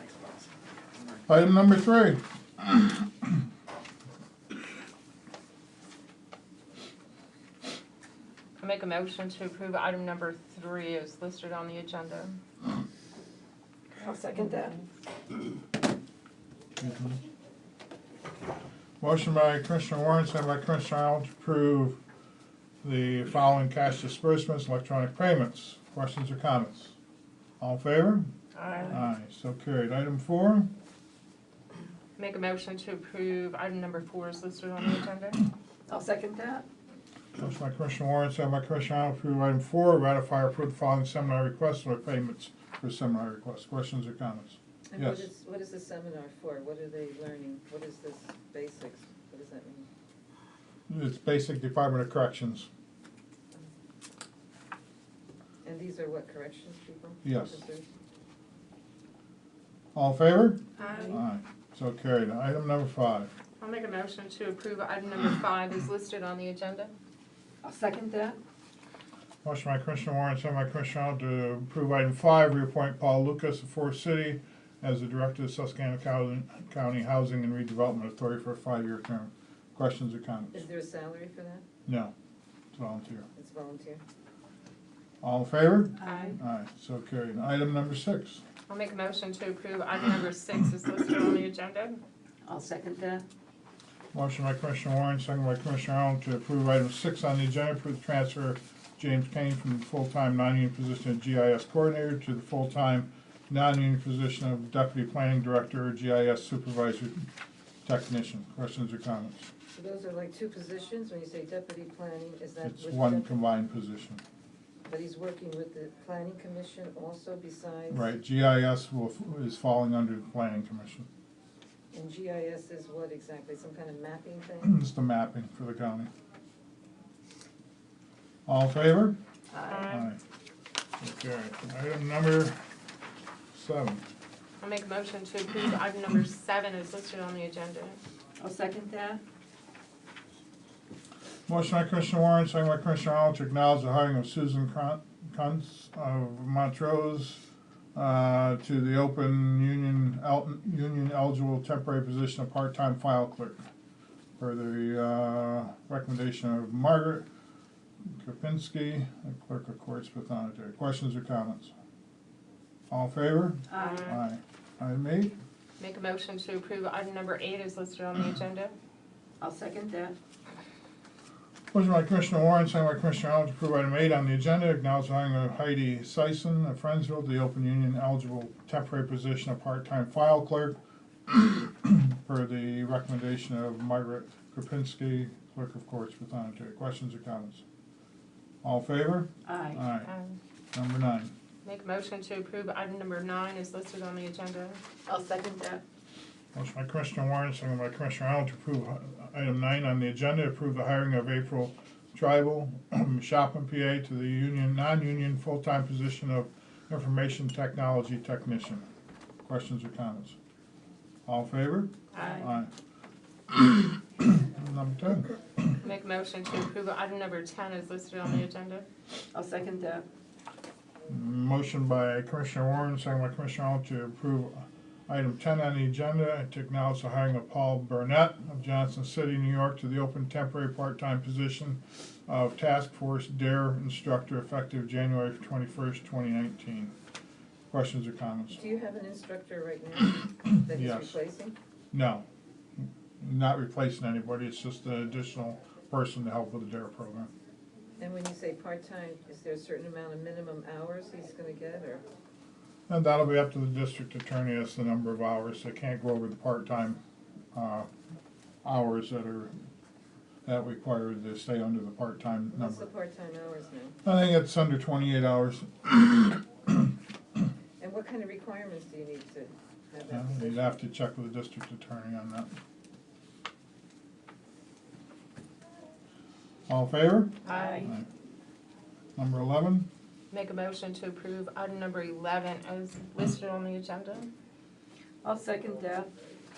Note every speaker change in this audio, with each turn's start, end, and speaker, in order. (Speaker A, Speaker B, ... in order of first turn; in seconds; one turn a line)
Speaker A: 1.3-3.0
Speaker B: 8.6-12.4
Speaker C: 14.0-14.7
Speaker B: 14.3-14.8
Speaker A: 16.8-17.2
Speaker A: 19.0-22.0
Speaker A: 22.8-27.0
Speaker A: 27.6-28.3
Speaker B: 28.6-28.9
Speaker A: 28.9-30.7
Speaker B: 32.2-35.4
Speaker C: 35.9-36.7
Speaker A: 37.4-45.3
Speaker D: 44.9-49.9
Speaker A: 50.9-52.7
Speaker D: 55.6-57.9
Speaker A: 57.2-57.6
Speaker A: 60.0-63.3
Speaker B: 60.8-61.2
Speaker B: 63.6-66.9
Speaker C: 67.6-68.4
Speaker A: 69.4-80.6
Speaker D: 80.5-81.6
Speaker A: 81.9-82.1
Speaker A: 82.7-83.3
Speaker D: 83.3-84.0
Speaker A: 85.2-88.4
Speaker C: 86.0-86.3
Speaker B: 88.7-92.0
Speaker C: 92.5-93.2
Speaker A: 94.1-107.2
Speaker A: 107.8-109.5
Speaker D: 109.7-113.4
Speaker A: 112.6-114.2
Speaker D: 114.9-118.1
Speaker A: 117.9-121.1
Speaker D: 121.9-124.7
Speaker A: 124.6-126.1
Speaker A: 128.5-129.2
Speaker B: 129.7-130.1
Speaker A: 129.9-130.2
Speaker A: 131.0-132.6
Speaker A: 133.5-134.0
Speaker B: 134.6-138.0
Speaker C: 138.4-139.2
Speaker A: 141.5-147.4
Speaker A: 147.9-153.6
Speaker A: 154.4-157.3
Speaker A: 158.2-161.7
Speaker A: 162.9-165.3
Speaker C: 163.7-164.1
Speaker B: 163.8-164.2
Speaker B: 165.8-168.8
Speaker C: 169.4-170.2
Speaker A: 171.7-187.6
Speaker A: 188.6-190.1
Speaker C: 189.5-189.8
Speaker B: 190.0-190.4
Speaker A: 190.7-191.3
Speaker B: 191.7-194.8
Speaker C: 195.1-195.8
Speaker A: 196.6-208.8
Speaker A: 209.4-210.4
Speaker A: 211.3-212.7
Speaker B: 212.1-212.4
Speaker A: 213.5-215.8
Speaker B: 215.8-218.9
Speaker C: 219.3-220.1
Speaker A: 221.1-236.9
Speaker A: 237.7-238.6
Speaker D: 238.5-241.6
Speaker A: 240.7-241.2
Speaker A: 241.9-242.2
Speaker A: 242.8-247.3
Speaker D: 248.0-252.0
Speaker A: 252.9-257.0
Speaker A: 257.5-257.9
Speaker A: 258.6-259.5
Speaker A: 260.4-262.8
Speaker D: 262.5-264.0
Speaker A: 264.0-266.8
Speaker D: 267.8-270.8
Speaker A: 270.1-272.5
Speaker A: 276.7-278.1
Speaker C: 277.4-277.9
Speaker B: 277.4-277.9
Speaker A: 279.2-279.9
Speaker B: 280.3-284.3
Speaker C: 285.2-286.1